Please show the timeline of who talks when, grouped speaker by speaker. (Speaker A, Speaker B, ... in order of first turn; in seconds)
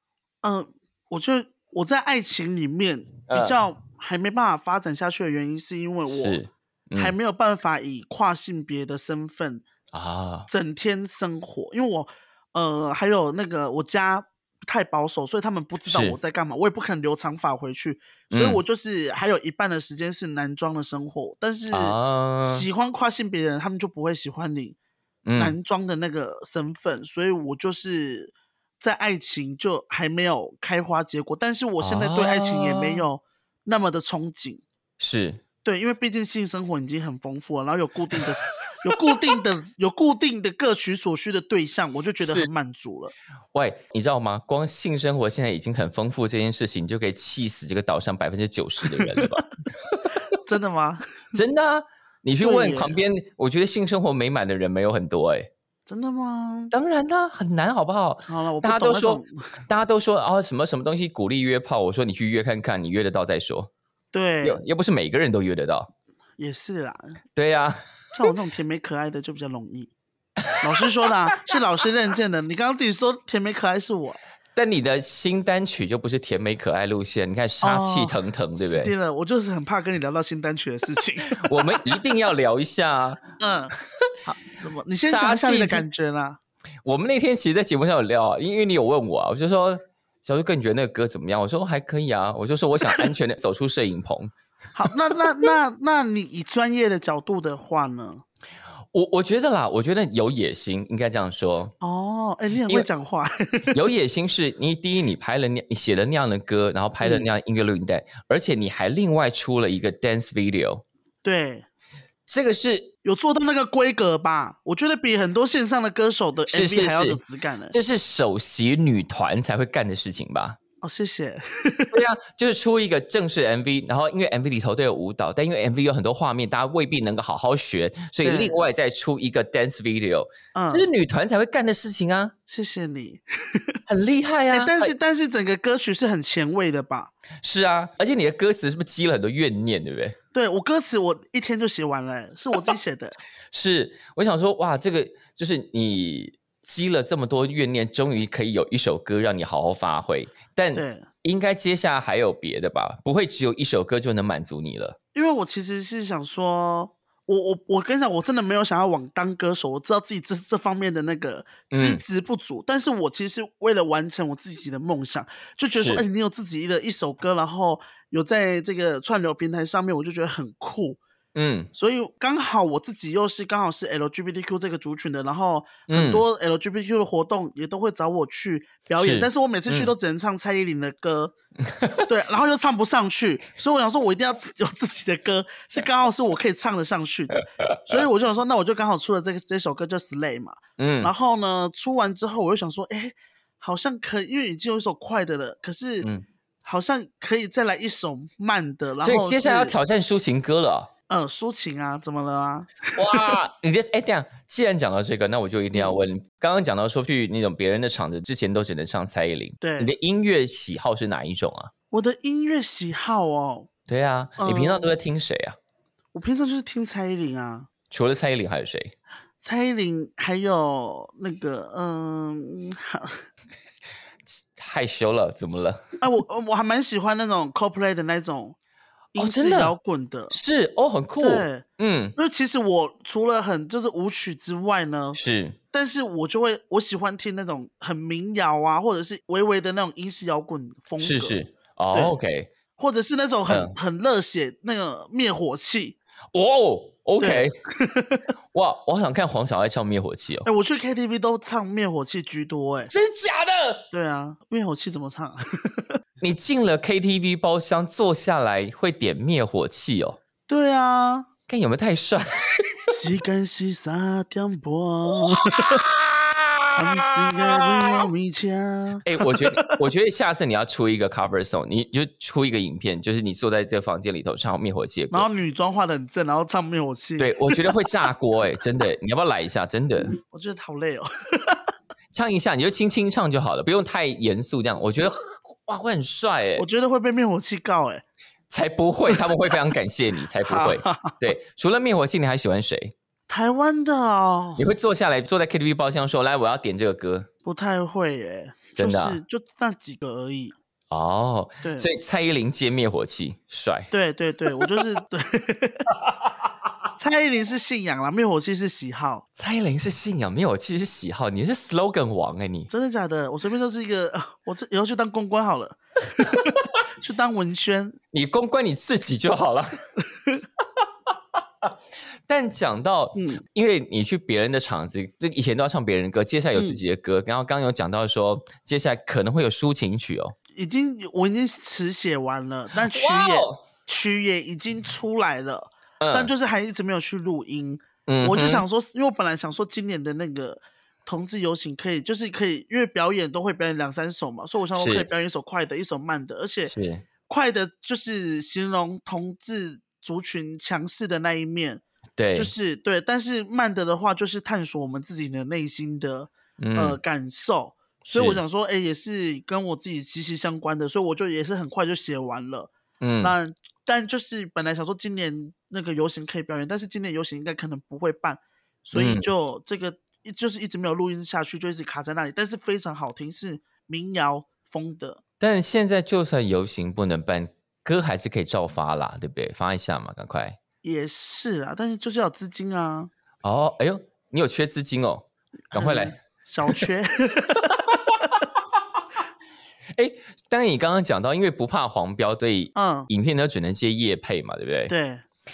Speaker A: 0.4-6.4, 7.0-9.6, 10.5-21.9, 22.5-24.8, 25.4-34.6, 35.6-43.1, 48.9-49.4, 50.4-51.4, 52.4-53.0, 55.9-56.7, 58.3-59.3, 64.1-64.6, 66.4-67.2, 68.1-69.9, 70.6-74.2, 77.6-81.9, 83.4-83.7, 84.2-86.4, 94.7-98.2, 101.8-103.8, 107.0-107.3, 111.2-111.7, 113.0-117.8, 120.8-122.0, 128.2-128.6, 130.5-130.9, 132.5-133.8, 134.5-137.1, 140.3-143.2, 150.7-151.1, 155.1-171.0, 171.7-181.3, 182.0-196.1, 196.6-199.8, 201.1-203.3, 209.6-209.9, 211.9-213.7, 214.4-214.9, 216.1-217.7, 219.4-223.2, 226.0-228.6, 229.1-230.4, 231.2-231.6, 232.2-235.2, 235.7-242.2, 242.8-246.0, 247.2-248.2, 250.4-252.9, 253.9-255.8, 260.5-261.3, 262.9-265.8, 266.8-269.8, 275.1-277.8, 280.1-281.6, 286.6-288.0, 290.4-291.3, 293.3-294.6, 297.4-300.6, 301.6-301.9, 303.9-305.9, 307.0-309.2, 312.7-318.0, 323.1-323.4, 330.5-346.7, 347.3-351.8, 352.3-375.2, 380.8-383.1, 385.7-388.4, 392.7-393.1, 394.9-395.2
Speaker B: 3.3-3.6, 6.1-7.1, 9.9-10.5, 15.8-16.2, 18.3-18.6, 21.7-22.6, 25.2-25.6, 31.8-33.0, 35.0-35.4, 42.2-42.5, 43.5-50.2, 51.3-55.5, 56.7-63.7, 64.4-65.9, 67.3-68.3, 74.5-78.9, 81.3-83.2, 84.9-85.8, 86.8-94.3, 98.9-101.7, 103.7-110.8, 112.3-112.9, 116.5-117.2, 117.7-120.6, 121.9-132.3, 133.9-134.9, 137.4-140.2, 143.5-155.0, 161.7-162.0, 165.8-166.0, 171.3-171.7, 175.9-176.2, 179.0-179.9, 181.6-182.1, 187.6-188.0, 190.8-191.1, 199.0-200.9, 202.9-211.7, 213.9-215.6, 217.9-218.9, 224.5-225.8, 229.2-229.7, 230.3-232.1, 235.2-235.6, 241.0-242.5, 243.5-243.7, 246.3-247.5, 248.5-250.5, 252.9-253.8, 256.2-260.2, 261.5-262.8, 265.2-268.0, 269.0-275.3, 277.2-280.1, 282.1-286.6, 288.5-292.9, 294.6-297.3, 298.8-299.2, 300.9-303.9, 309.4-312.7, 318.1-319.7, 322.3-330.3, 332.9-333.6, 336.0-336.3, 338.1-338.6, 344.8-345.1, 346.7-347.0, 352.2-352.5, 356.6-357.0, 358.1-358.4, 363.0-363.3, 368.9-369.3, 375.4-380.6, 383.4-386.1, 389.9-394.9